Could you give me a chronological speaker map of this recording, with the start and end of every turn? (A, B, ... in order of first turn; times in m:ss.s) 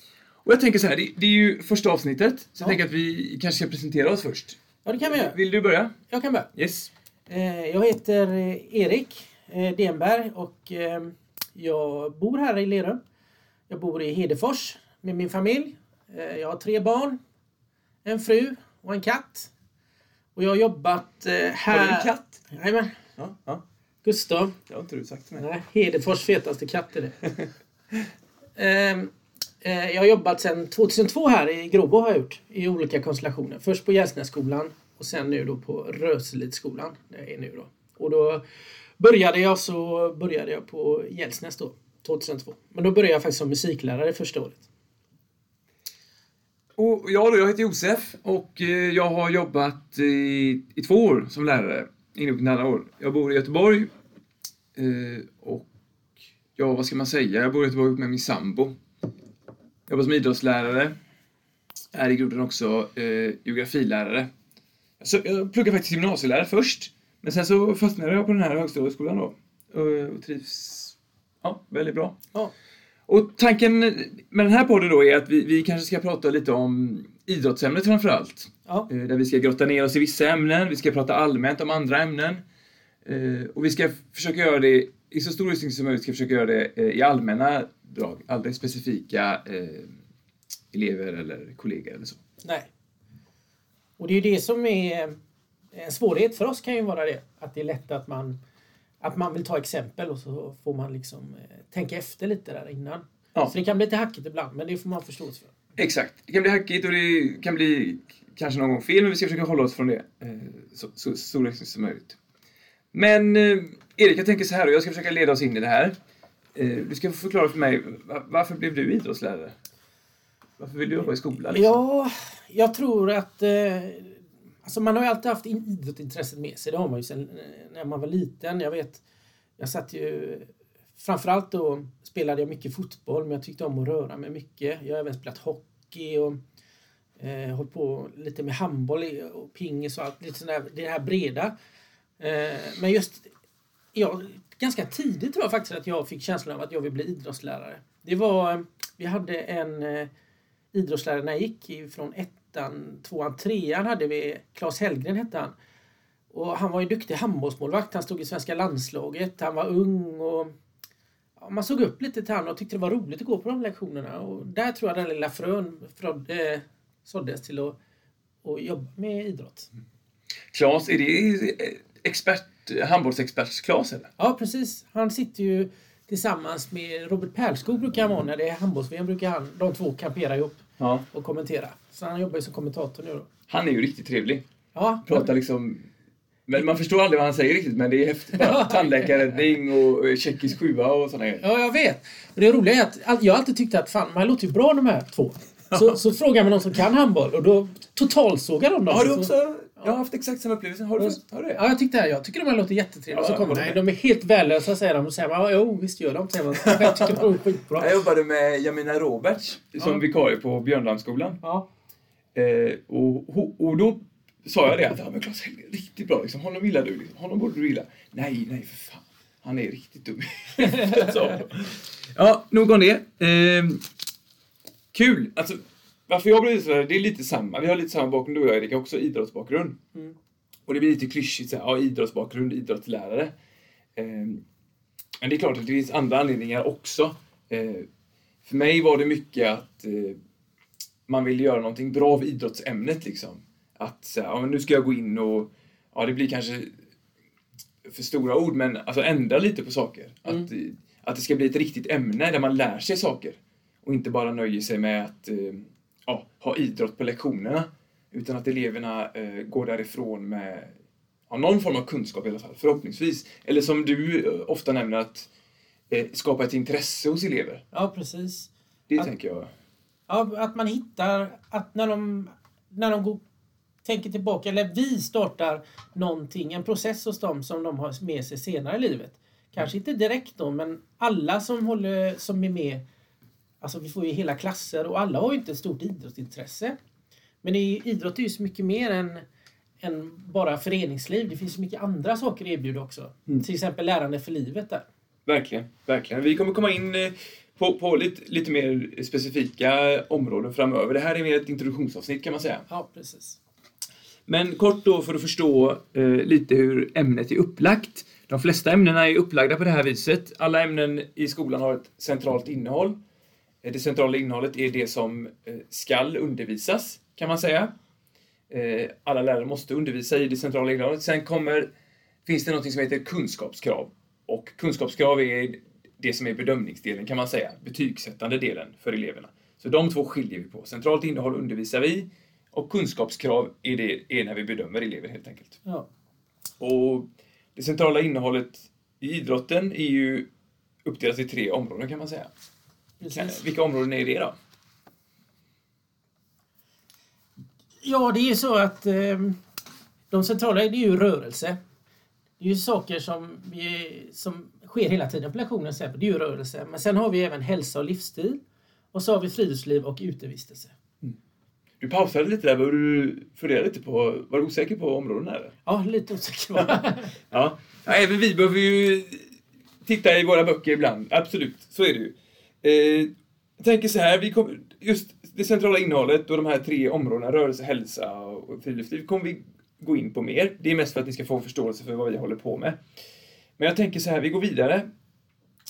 0:00.4-0:05.9 A
0:04.8-0:05.4 B
0:06.1-0:06.5 B
0:06.5-0:06.9 A
0:07.3-0:13.0 B
0:13.7-0:17.2 B
0:18.0-0:19.5 B
0:20.3-0:23.0 B
0:21.7-0:22.3 A
0:23.2-0:23.6 A
0:24.0-0:24.6 B
0:24.7-0:25.4 A
0:25.4-0:27.3 B
0:28.6-0:38.4 B
0:39.0-0:44.6 B
0:46.8-0:53.9 A
0:54.7-0:55.7 A
0:56.6-0:58.7 A
0:59.9-1:00.9 A
1:01.9-1:04.3 A
1:05.0-1:12.2 A
1:13.1-1:22.4 A
1:23.0-1:29.9 A
1:30.7-1:32.2 A
1:32.4-1:32.7 B
1:34.0-1:35.2 B
1:35.7-1:38.4 B
1:39.0-1:45.5 B
1:45.8-1:52.2 A
1:52.9-1:55.9 A
1:56.5-1:59.5 A
2:00.6-2:01.8 A
2:01.4-2:09.0 B
2:09.6-2:16.4 B
2:17.2-2:21.5 B
2:22.2-2:23.3 B
2:23.9-2:30.1 B
2:30.7-2:35.5 B
2:36.3-2:40.5 B
2:41.4-2:47.8 B
2:48.4-2:49.7 B
2:50.5-2:54.1 A
2:54.2-3:03.3 B
3:00.8-3:01.0 A
3:03.5-3:04.4 A
3:04.7-3:05.3 B
3:05.0-3:05.9 A
3:06.5-3:11.4 A
3:08.4-3:09.4 B
3:11.4-3:19.9 B
3:15.7-3:16.0 A
3:18.9-3:21.6 A
3:21.0-3:28.0 B
3:23.1-3:23.8 A
3:26.6-3:31.4 A
3:32.3-3:43.8 A
3:40.6-3:41.4 B
3:44.9-3:49.8 A
3:50.7-3:53.3 A
3:54.0-3:54.4 A
3:55.2-3:57.9 A
3:58.4-4:00.2 A
4:01.1-4:06.7 A
4:07.8-4:20.7 A
4:21.3-4:25.3 A
4:25.9-4:27.6 A
4:27.7-4:29.1 B
4:28.9-4:29.5 A
4:30.1-4:33.2 B
4:33.8-4:42.8 B
4:43.6-4:46.8 B
4:47.4-4:49.2 B
4:49.8-4:54.8 B
4:55.2-5:02.6 A
5:02.7-5:03.4 B
5:04.3-5:13.0 A
5:13.6-5:17.7 A
5:18.5-5:21.7 A
5:22.2-5:35.6 A
5:36.6-5:40.3 A
5:40.8-5:42.3 A
5:43.0-5:43.4 B
5:43.1-5:44.3 A
5:47.8-5:49.4 B
5:50.1-5:51.6 B
5:52.4-5:58.4 B
5:58.9-6:00.7 B
6:01.8-6:05.5 A
6:05.6-6:07.2 B
6:06.6-6:09.3 A
6:09.8-6:22.8 A
6:23.6-6:24.9 A